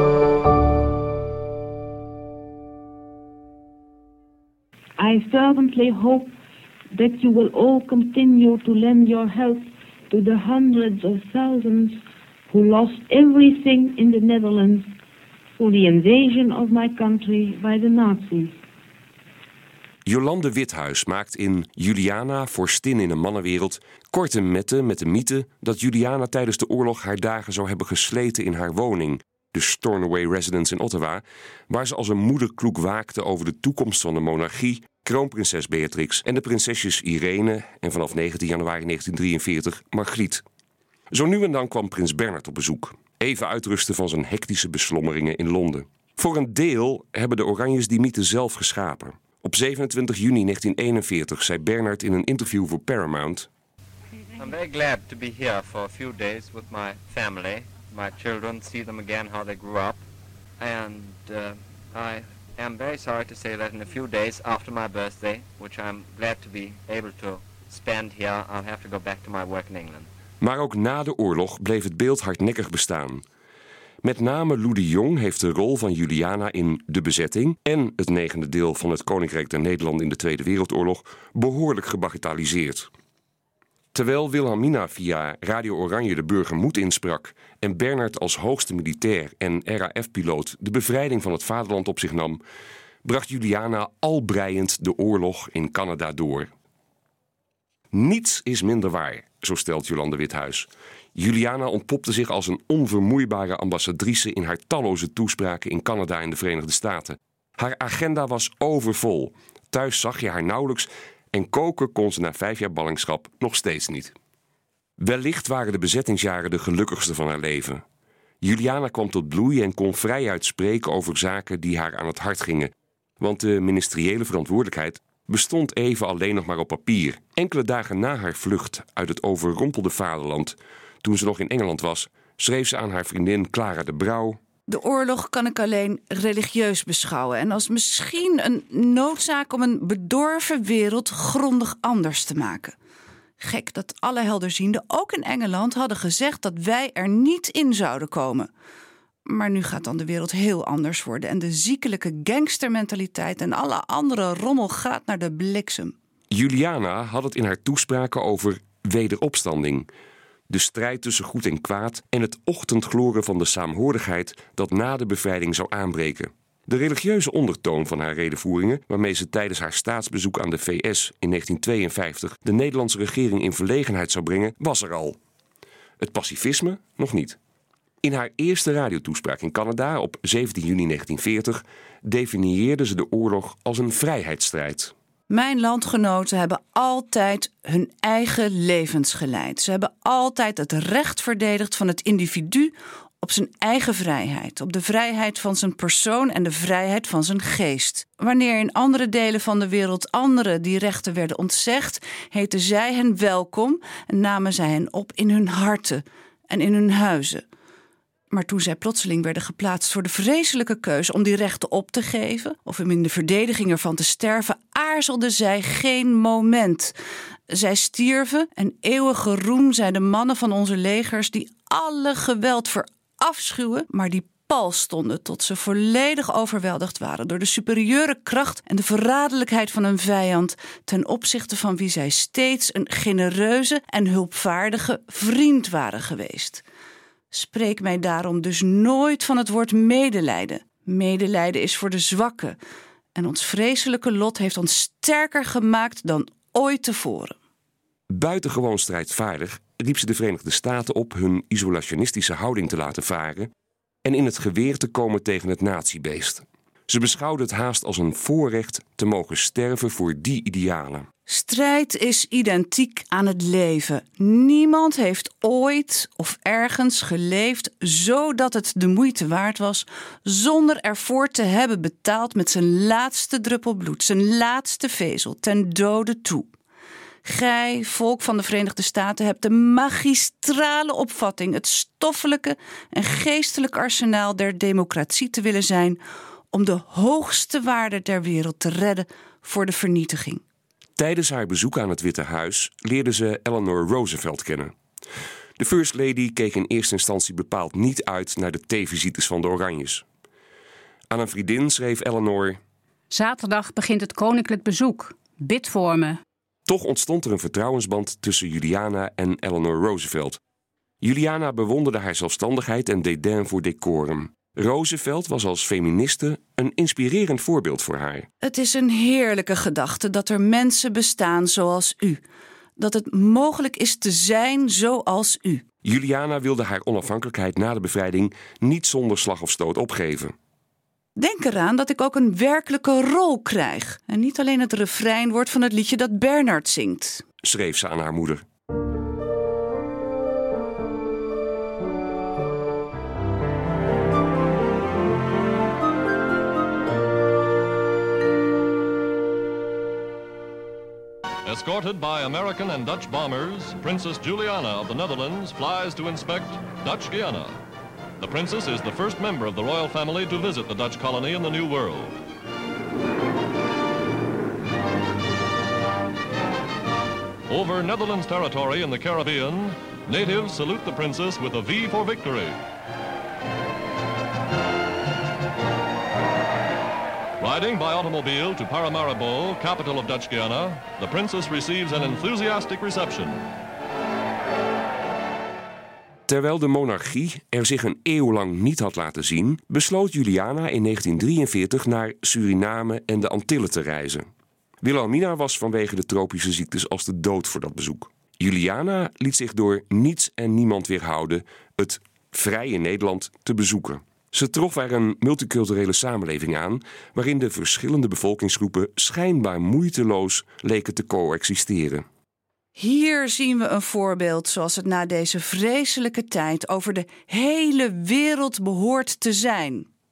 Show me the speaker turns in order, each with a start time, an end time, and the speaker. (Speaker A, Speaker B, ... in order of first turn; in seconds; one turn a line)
Speaker A: 5.0-6.3
Speaker A: 6.9-12.0
Speaker A: 12.5-14.9
Speaker A: 15.6-18.6
Speaker B: 20.1-40.4
Speaker B: 41.1-53.5
Speaker C: 54.4-60.0
Speaker C: 60.6-70.1
Speaker B: 70.4-73.2
Speaker B: 74.0-82.9
Speaker B: 83.9-92.4
Speaker B: 93.0-96.5
Speaker B: 97.9-114.1
Speaker B: 115.0-117.8
Speaker B: 118.4-134.4
Speaker D: 134.7-142.8
Speaker D: 143.4-148.5
Speaker D: 149.3-155.9
Speaker B: 156.3-159.9
Speaker B: 160.5-175.2
Speaker B: 176.0-177.4
Speaker B: 178.0-184.9
Speaker D: 185.3-207.4
Speaker D: 208.3-217.0
Speaker D: 217.5-236.6
Speaker D: 237.3-242.6
Speaker D: 243.2-247.3
Speaker B: 248.1-253.5
Speaker B: 254.0-261.1
Speaker D: 261.3-276.5
Speaker D: 277.2-286.0
Speaker D: 286.5-290.4
Speaker B: 291.0-294.7
Speaker B: 295.6-300.0
Speaker B: 301.1-302.6
Speaker E: 303.1-306.2
Speaker B: 306.7-310.4
Speaker B: 311.0-318.3
Speaker D: 318.4-322.2
Speaker D: 322.8-325.6
Speaker B: 325.8-330.3
Speaker D: 331.2-337.2
Speaker B: 337.4-338.4
Speaker F: 351.4-357.6
Speaker F: 358.2-362.2
Speaker F: 367.5-372.6
Speaker F: 377.4-383.5
Speaker B: 386.3-394.3
Speaker B: 394.8-412.1
Speaker D: 412.8-419.9